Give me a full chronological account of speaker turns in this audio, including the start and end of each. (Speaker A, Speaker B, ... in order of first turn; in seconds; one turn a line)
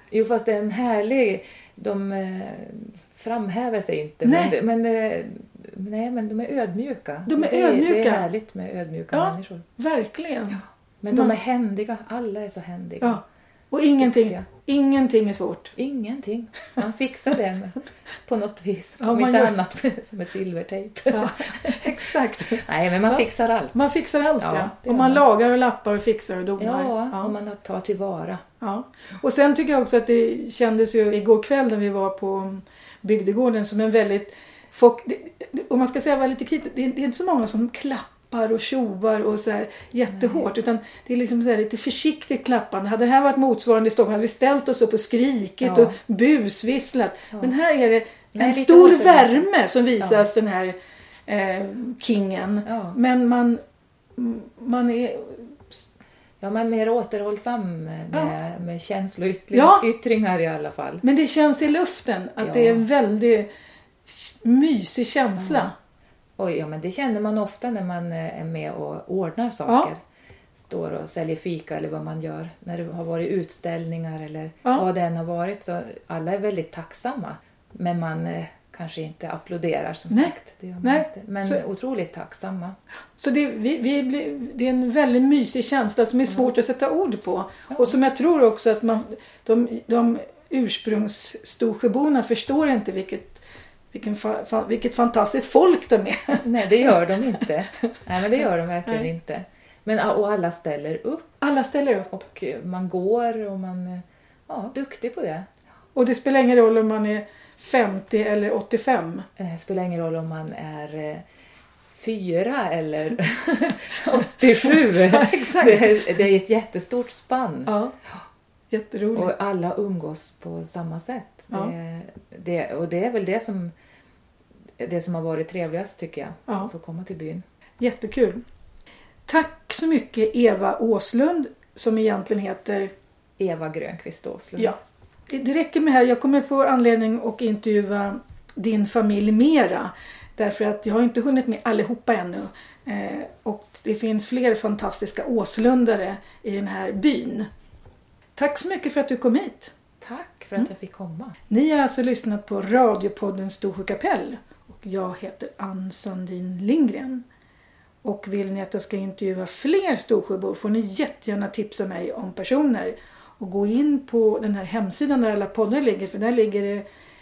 Speaker A: 0.1-9.7
Speaker B: 4.2-4.5
Speaker B: 7.3-8.2
Speaker B: 9.1-11.3
Speaker A: 11.0-13.2
Speaker B: 13.0-15.7
Speaker A: 14.0-14.4
Speaker A: 15.8-23.8
Speaker B: 19.0-19.5
Speaker B: 21.1-27.3
Speaker A: 24.4-25.2
Speaker A: 26.6-28.4
Speaker B: 28.6-50.7
Speaker A: 40.1-40.4
Speaker A: 45.6-46.0
Speaker A: 48.3-49.4
Speaker B: 51.3-53.6
Speaker A: 52.6-53.0
Speaker B: 54.1-55.7
Speaker A: 56.4-61.0
Speaker B: 59.5-59.9
Speaker B: 61.0-63.5
Speaker A: 62.4-62.8
Speaker B: 64.1-65.7
Speaker A: 65.4-65.7
Speaker A: 66.4-70.0
Speaker A: 70.6-82.8
Speaker B: 80.1-81.6
Speaker B: 83.2-96.5
Speaker A: 96.4-101.3
Speaker B: 101.4-102.1
Speaker A: 102.1-105.5
Speaker B: 105.9-109.2
Speaker A: 109.4-111.2
Speaker A: 111.9-117.7
Speaker B: 114.7-116.1
Speaker B: 117.7-117.9
Speaker B: 118.7-119.3
Speaker A: 119.1-123.7
Speaker A: 124.8-127.4
Speaker B: 127.8-128.4
Speaker B: 129.3-132.9
Speaker A: 133.4-134.8
Speaker B: 135.3-147.5
Speaker B: 148.3-149.7
Speaker A: 150.0-151.4
Speaker B: 151.5-157.2
Speaker B: 158.0-166.8